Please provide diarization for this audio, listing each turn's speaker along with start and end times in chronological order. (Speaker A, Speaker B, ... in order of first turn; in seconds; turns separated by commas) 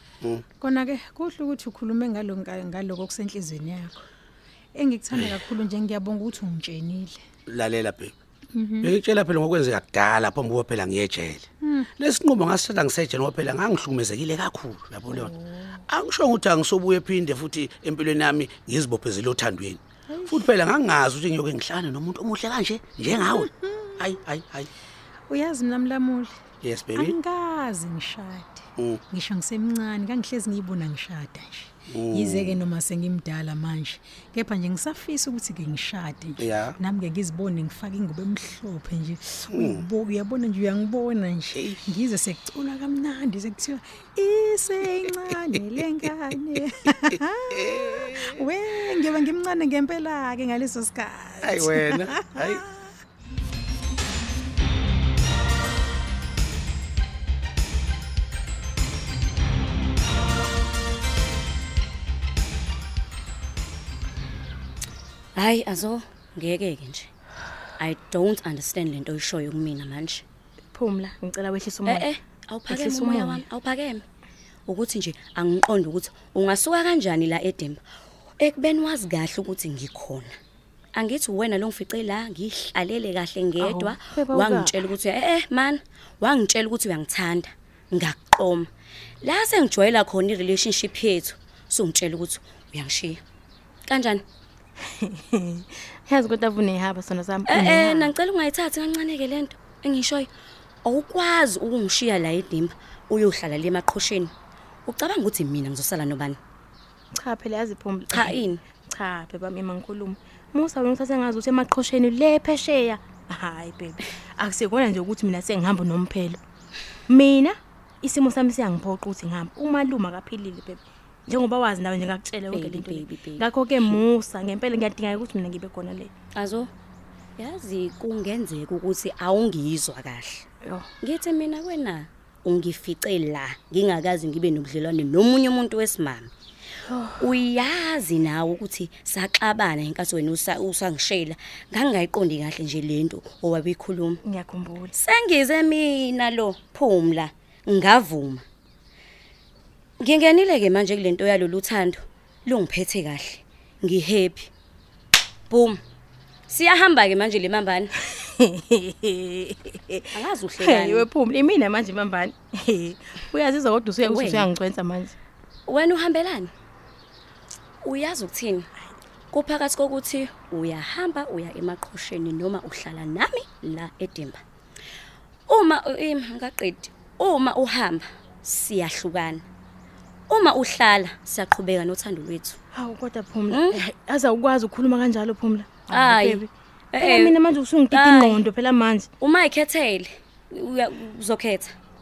Speaker A: 0.6-4.0, Speaker A: 4.8-7.2, Speaker B: 7.5-8.1, Speaker A: 8.5-8.9, Speaker B: 8.8-11.4, Speaker B: 12.0-15.3, Speaker A: 15.1-15.8, Speaker B: 15.9-24.7, Speaker A: 20.1-20.4, Speaker A: 23.4-24.0, Speaker A: 25.3-26.3, Speaker B: 26.6-27.1, Speaker A: 26.9-52.9, Speaker B: 31.9-32.6, Speaker B: 36.4-36.8, Speaker B: 39.5-39.8, Speaker B: 41.5-41.9, Speaker B: 47.7-48.3, Speaker B: 51.4-52.6, Speaker C: 65.3-67.1, Speaker C: 67.8-70.2, Speaker D: 70.7-72.1, Speaker C: 71.9-74.0, Speaker D: 72.7-73.4, Speaker C: 74.7-77.8, Speaker C: 78.4-80.3, Speaker C: 80.9-88.7, Speaker D: 83.6-84.7, Speaker C: 89.2-93.2, Speaker C: 93.9-94.2, Speaker D: 95.0-98.1, Speaker C: 97.5-100.3, Speaker C: 100.8-104.3, Speaker C: 104.9-106.4, Speaker D: 107.2-116.4, Speaker C: 108.1-108.6, Speaker D: 117.1-126.1, Speaker C: 122.5-123.5, Speaker C: 126.3-126.7, Speaker C: 127.4-130.4, Speaker C: 131.0-136.3, Speaker D: 136.9-137.3, Speaker C: 137.2-144.2, Speaker D: 144.2-144.9, Speaker C: 144.9-148.4, Speaker C: 150.0-154.5, Speaker C: 155.5-155.8, Speaker C: 156.5-157.9, Speaker D: 158.2-165.1, Speaker C: 160.1-161.1, Speaker C: 164.0-164.5, Speaker C: 165.7-166.5, Speaker C: 167.8-168.7, Speaker C: 169.3-174.4, Speaker C: 175.5-179.4, Speaker C: 180.3-182.6, Speaker D: 182.7-186.5, Speaker C: 183.5-183.8, Speaker C: 185.9-186.4, Speaker C: 186.9-187.4, Speaker D: 187.0-189.1, Speaker C: 187.9-188.4, Speaker C: 189.2-191.7